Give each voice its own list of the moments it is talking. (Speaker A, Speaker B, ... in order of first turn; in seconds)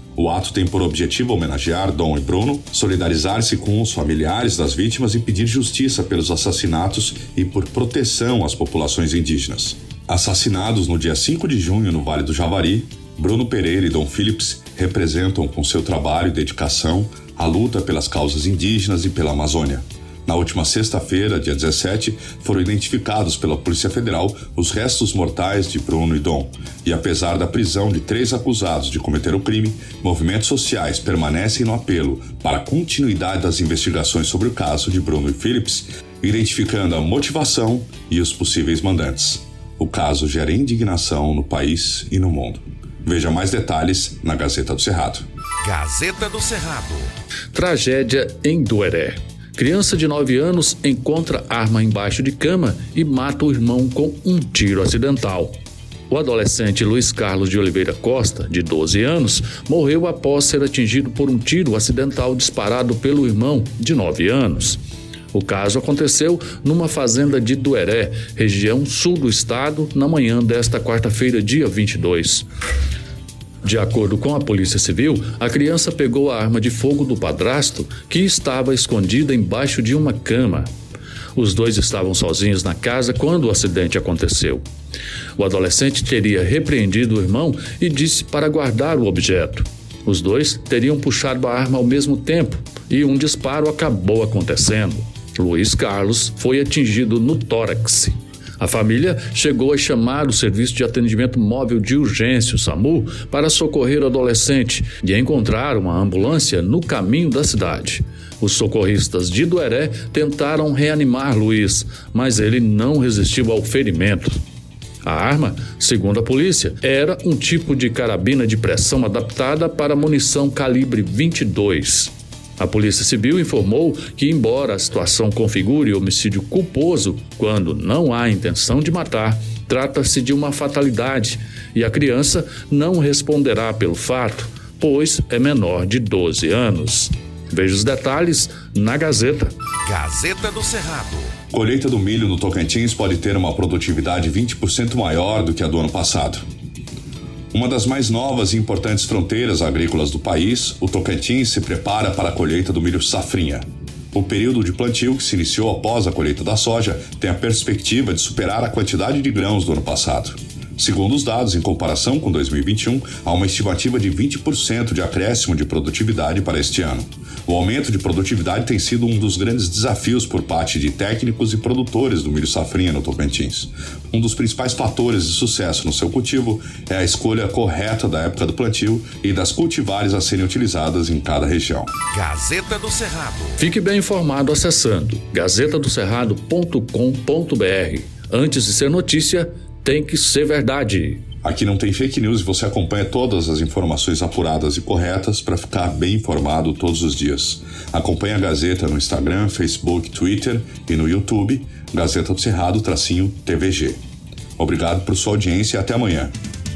Speaker A: 0.1-45.3, 141.5-146.4, 147.5-181.9, 191.4-204.0, 204.6-206.3
Speaker B: 45.6-47.1, 139.8-141.3, 182.1-183.6
Speaker C: 47.5-55.5, 56.1-64.8, 65.3-72.5, 73.6-80.7, 81.3-84.6, 85.4-114.4, 115.0-139.6, 183.6-191.2